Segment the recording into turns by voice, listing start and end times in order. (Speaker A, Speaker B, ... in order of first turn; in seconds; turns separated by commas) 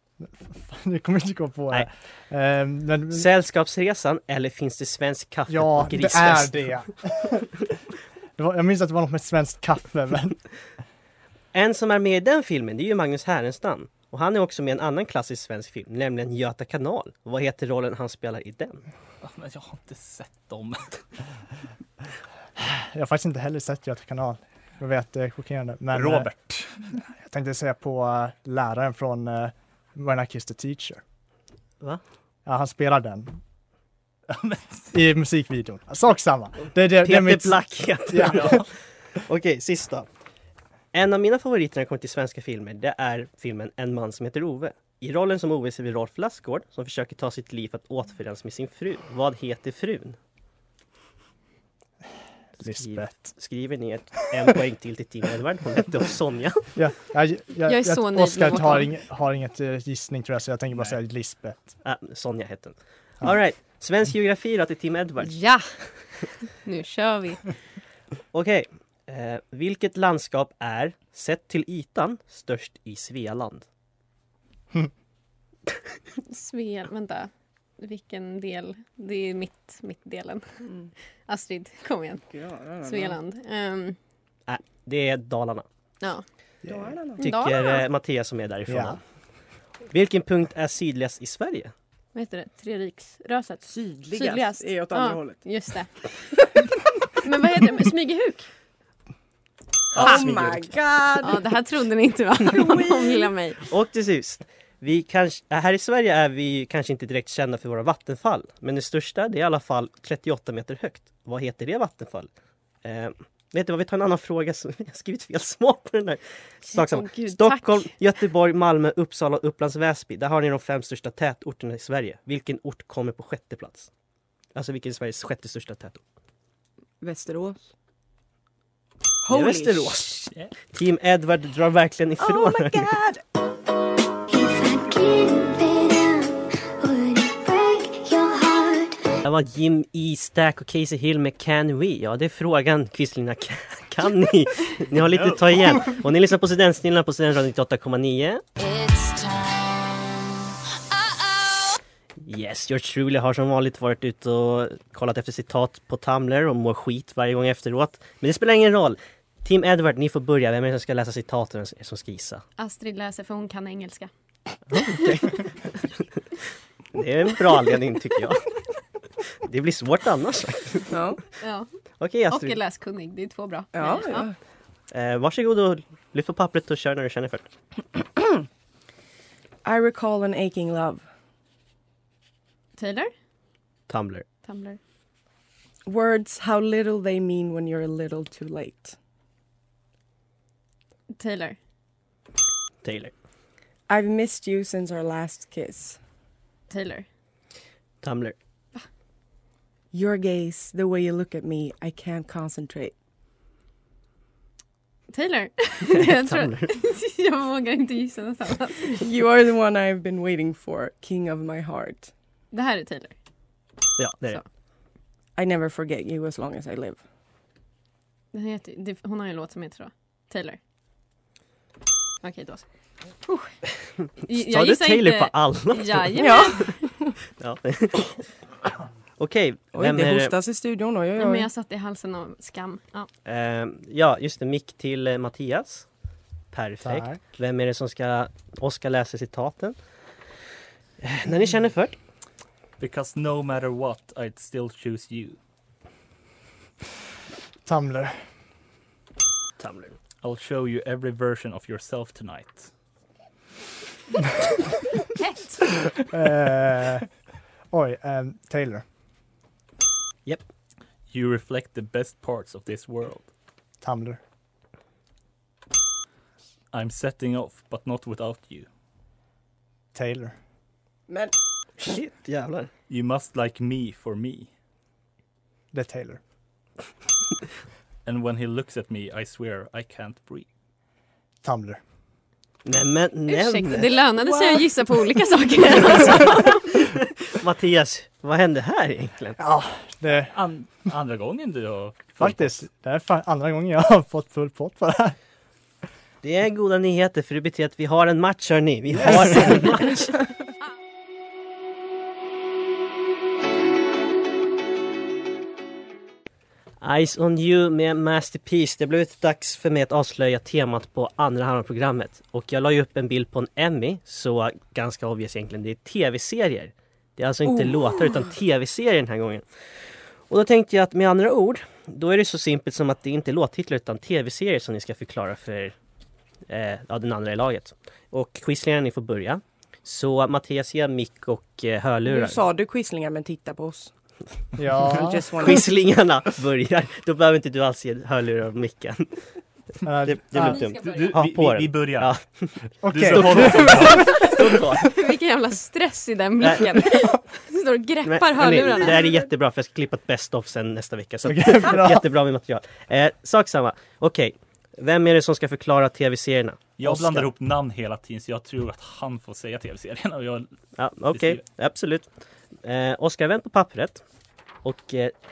Speaker A: 0.2-3.3, Speaker B: 3.1-6.7, Speaker A: 5.5-7.7, Speaker A: 8.4-10.4, Speaker B: 11.5-18.8, Speaker C: 19.2-20.9, Speaker A: 22.6-26.3, Speaker C: 25.9-26.7, Speaker A: 27.2-31.0, Speaker A: 32.5-33.4, Speaker C: 34.3-34.9, Speaker A: 34.9-38.6, Speaker B: 37.0-40.1, Speaker C: 38.2-38.6, Speaker B: 40.9-50.2, Speaker A: 52.6-53.3, Speaker B: 52.7-56.7, Speaker A: 56.7-61.6, Speaker D: 57.7-58.9, Speaker B: 61.8-65.5, Speaker D: 65.2-65.6, Speaker D: 66.6-67.5, Speaker B: 68.3-73.7, Speaker D: 76.2-80.5, Speaker E: 80.6-80.9, Speaker D: 81.3-82.2, Speaker E: 82.3-83.2, Speaker D: 82.8-84.0, Speaker B: 84.5-85.7, Speaker E: 86.7-87.2, Speaker D: 87.2-87.8, Speaker B: 87.2-89.0, Speaker A: 88.7-89.0, Speaker B: 89.9-91.7, Speaker D: 92.1-96.5, Speaker E: 93.7-95.4, Speaker D: 97.1-98.5, Speaker E: 99.9-101.5, Speaker D: 99.9-100.2, Speaker B: 100.0-100.6, Speaker D: 101.2-103.6, Speaker E: 102.5-103.3, Speaker B: 103.7-112.3, Speaker B: 112.8-123.9, Speaker D: 116.7-117.9, Speaker B: 124.5-126.0, Speaker E: 127.0-127.6, Speaker E: 129.2-130.1, Speaker B: 129.3-132.9, Speaker E: 132.2-133.2, Speaker F: 134.3-139.0, Speaker B: 139.2-148.4, Speaker C: 145.0-145.5, Speaker F: 148.7-149.2, Speaker B: 152.2-162.4, Speaker D: 162.6-164.1, Speaker B: 164.7-166.0, Speaker B: 166.9-168.6, Speaker B: 169.4-170.9, Speaker E: 170.9-171.2, Speaker D: 171.4-171.7, Speaker B: 172.0-172.6, Speaker D: 172.3-174.3, Speaker E: 173.7-174.3, Speaker B: 174.9-177.5, Speaker E: 179.6-181.0, Speaker D: 182.8-183.1, Speaker B: 183.9-184.2, Speaker D: 184.4-184.8, Speaker E: 185.8-188.9, Speaker D: 191.1-191.6, Speaker B: 192.8-193.1, Speaker E: 193.9-196.0, Speaker D: 196.7-197.1, Speaker B: 198.0-198.4, Speaker E: 199.9-202.9, Speaker D: 205.1-209.0, Speaker B: 205.9-206.7, Speaker E: 208.9-212.1, Speaker D: 212.5-213.1, Speaker B: 214.0-214.4, Speaker E: 215.3-217.0, Speaker D: 218.3-220.6, Speaker D: 222.2-222.6, Speaker D: 223.2-223.5, Speaker D: 224.2-226.8, Speaker B: 224.3-226.1, Speaker E: 226.2-227.1, Speaker B: 227.3-228.2, Speaker B: 229.2-230.3, Speaker E: 229.7-231.5, Speaker D: 231.2-233.1, Speaker B: 233.2-235.9, Speaker B: 236.5-239.8, Speaker A: 236.8-237.2, Speaker B: 241.0-242.0, Speaker C: 242.8-245.4, Speaker A: 247.6-248.2, Speaker B: 249.6-249.9, Speaker C: 250.2-252.7, Speaker A: 256.1-257.1, Speaker A: 257.7-258.8, Speaker C: 261.1-263.3, Speaker A: 263.8-264.2, Speaker C: 266.7-268.7, Speaker A: 269.9-270.3, Speaker E: 271.1-271.3, Speaker B: 271.8-272.7, Speaker C: 272.9-274.5, Speaker A: 275.7-276.2, Speaker C: 278.1-280.4, Speaker A: 281.4-281.8, Speaker B: 282.6-284.0, Speaker D: 283.3-286.6, Speaker B: 285.8-289.4, Speaker A: 289.4-290.4, Speaker C: 290.3-292.6, Speaker A: 292.2-295.1, Speaker B: 296.2-300.2, Speaker A: 298.9-299.6, Speaker B: 306.8-319.4, Speaker E: 317.5-317.9, Speaker B: 320.3-325.7, Speaker B: 326.5-332.5, Speaker E: 332.1-333.9, Speaker A: 334.6-335.2, Speaker E: 334.9-335.7, Speaker B: 335.4-339.2, Speaker A: 339.8-340.6, Speaker B: 340.0-344.9, Speaker C: 340.8-342.1, Speaker C: 342.7-344.1, Speaker A: 342.8-344.9, Speaker D: 344.1-349.0, Speaker B: 346.4-347.0, Speaker B: 348.0-356.7, Speaker A: 351.2-352.1, Speaker C: 356.8-360.5, Speaker A: 356.8-357.3, Speaker B: 360.8-362.1, Speaker C: 361.1-361.4, Speaker B: 362.6-364.0, Speaker B: 364.6-365.1